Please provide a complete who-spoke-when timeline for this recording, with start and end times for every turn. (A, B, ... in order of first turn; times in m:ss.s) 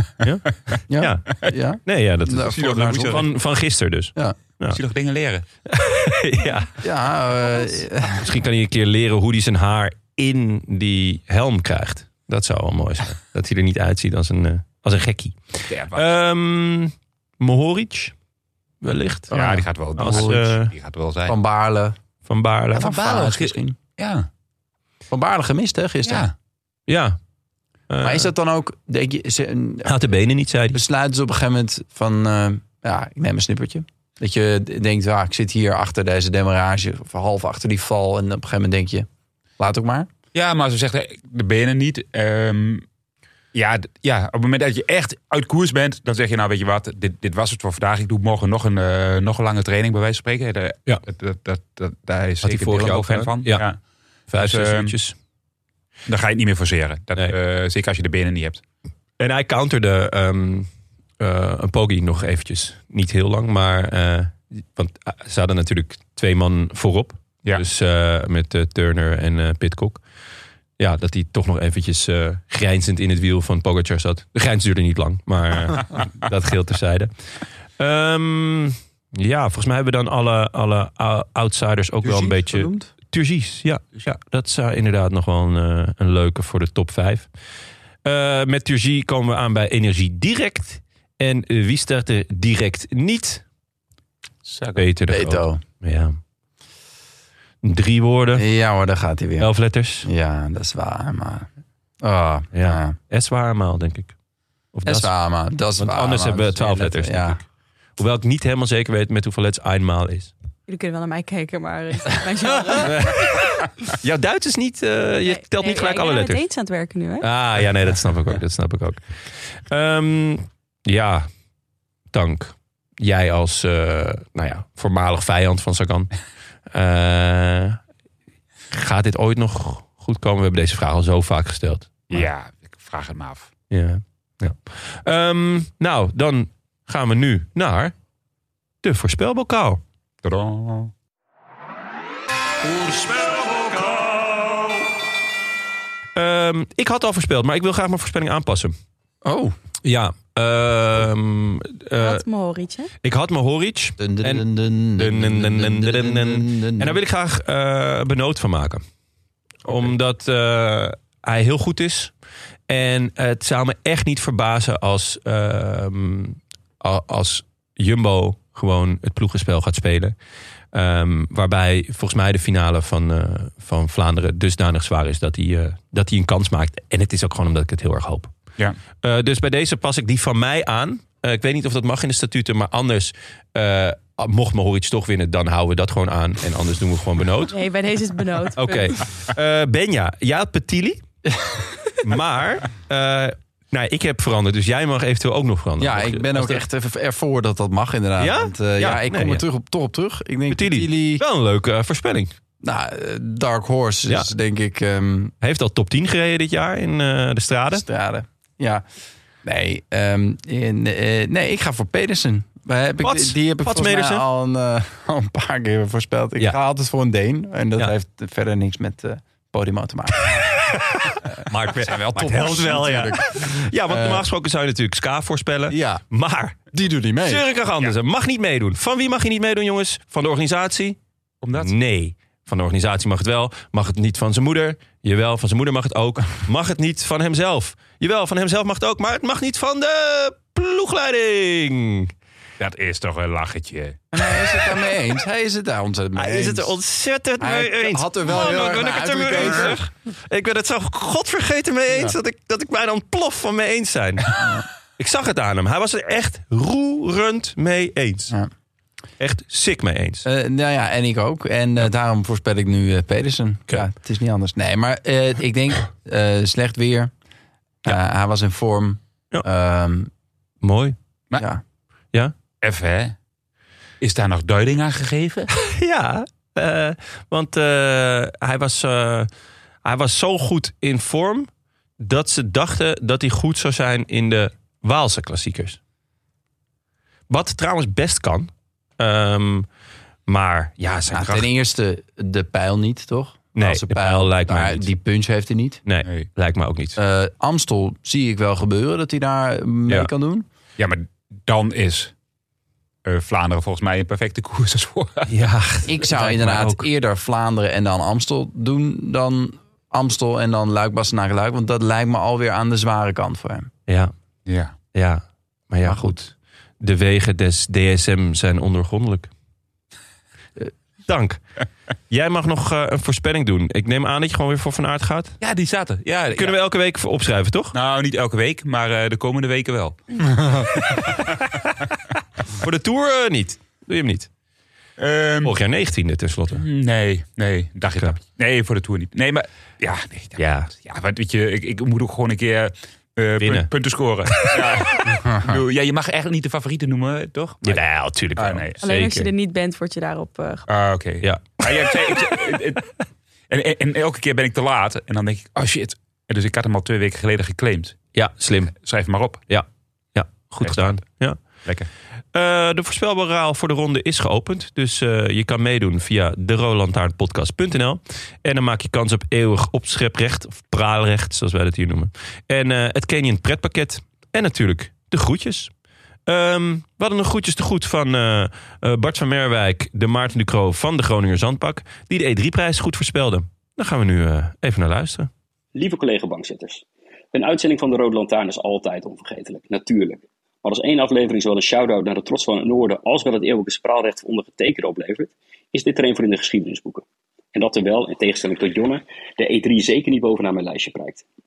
0:00.2-0:04.8 A
0:00.9-0:03.3 B
0:02.4-0:03.3 C
0:04.7-0:05.4 C
0:05.7-0:06.8 A
0:06.8-0:08.3 B
0:08.2-0:18.1 A
0:15.7-0:16.1 C
0:18.8-0:20.7 A
0:19.3-0:20.4 B
0:19.3-0:21.4 C
0:21.3-0:22.0 B
0:22.3-0:22.9 A
0:22.7-0:23.8 B
0:22.8-0:24.3 C
0:25.1-0:26.3 B
0:26.0-0:26.3 C
0:26.9-0:27.2 A
0:27.9-0:28.3 A
0:28.0-0:30.0 B
0:29.8-0:30.8 A
0:30.7-0:39.1 B
0:39.6-0:40.1 B
0:40.3-0:42.8 C
0:43.5-0:53.8 C
0:52.4-0:53.6 A
0:54.3-0:55.2 A
0:54.4-0:55.0 C
0:56.1-0:58.6 C
0:59.2-1:10.0 A
1:10.8-1:17.1 A
1:17.8-1:27.3 A
1:22.0-1:22.9 B
1:28.0-1:33.4 A
1:34.4-1:34.9 C
1:34.8-1:36.2 A
1:35.1-1:35.6 B
1:37.6-1:38.4 A
1:38.4-1:39.5 B
1:39.4-1:40.1 A
1:40.0-1:41.5 B
1:42.0-1:43.0 B
1:42.5-1:44.1 A
1:44.7-1:45.1 A
1:44.9-1:47.4 B
1:45.8-1:47.4 A
1:48.0-1:50.3 A
1:50.7-1:53.3 D
1:52.8-1:53.4 A
1:53.9-1:56.4 A
1:55.2-1:57.3 D
1:57.2-2:01.3 A
2:02.1-2:06.1 A
2:06.7-2:07.8 A
2:08.7-2:12.3 A
2:12.1-2:13.5 C
2:13.7-2:17.9 A
2:18.8-2:19.8 A
2:20.2-2:20.9 C
2:22.6-2:24.4 A
2:26.2-2:28.8 A
2:29.2-2:29.6 B
2:29.8-2:32.2 A
2:32.0-2:32.9 D
2:33.0-2:38.8 A
2:34.0-2:37.0 B
2:39.6-2:42.1 A
2:42.7-2:50.2 A
2:50.7-2:58.3 A
2:59.0-3:07.6 A
3:07.5-3:09.0 D
3:08.6-3:11.0 A
3:11.3-3:11.6 B
3:12.0-3:16.6 A
3:15.8-3:21.2 B
3:18.2-3:19.4 A
3:20.5-3:22.3 A
3:22.6-3:25.3 B
3:25.4-3:27.8 A
3:27.7-3:28.8 B
3:29.4-3:40.5 B
3:33.0-3:34.2 A
3:40.6-3:46.7 A
3:41.2-3:44.3 B
3:45.7-3:46.0 B
3:46.7-3:47.4 B
3:47.2-3:51.0 A
3:51.4-3:51.7 C
3:51.6-4:02.1 A
4:02.6-4:04.0 C
4:04.1-4:06.7 B
4:06.2-4:14.4 A
4:07.4-4:09.9 B
4:15.0-4:18.3 A
4:19.2-4:20.2 A
4:20.2-4:27.1 B
4:27.8-4:30.1 B
4:30.6-4:31.0 A
4:32.6-4:33.2 C
4:34.0-4:35.5 C
4:35.6-4:39.3 A
4:39.8-4:45.8 A
4:47.3-4:49.7 A
4:50.3-4:51.5 A
4:51.1-4:55.8 B
4:53.6-4:54.9 A
4:55.9-4:57.0 A
4:57.0-5:00.5 B
5:00.8-5:02.1 C
5:03.0-5:05.3 C
5:05.3-5:06.9 A
5:05.9-5:13.7 B
5:14.5-5:14.7 C
5:14.9-5:19.3 A
5:21.1-5:21.4 A
5:22.1-5:25.4 A
5:25.4-5:26.6 C
5:26.3-5:27.8 A
5:27.7-5:31.3 C
5:31.0-5:31.3 A
5:32.6-5:34.3 A
5:35.0-5:35.6 C
5:35.4-5:36.6 A
5:36.6-5:47.8 C
5:40.4-5:40.7 A
5:43.4-5:43.7 A
5:45.2-5:45.5 B
5:47.6-5:49.3 A
5:48.4-5:48.8 C
5:48.8-5:50.7 D
5:50.7-5:52.9 C
5:51.2-5:51.9 A
5:53.5-5:58.0 C
5:58.1-5:58.8 A
5:58.8-5:59.4 C
5:59.5-6:01.4 A
6:00.6-6:01.0 C
6:02.3-6:15.7 A
6:16.3-6:25.3 A
6:25.7-6:41.2 E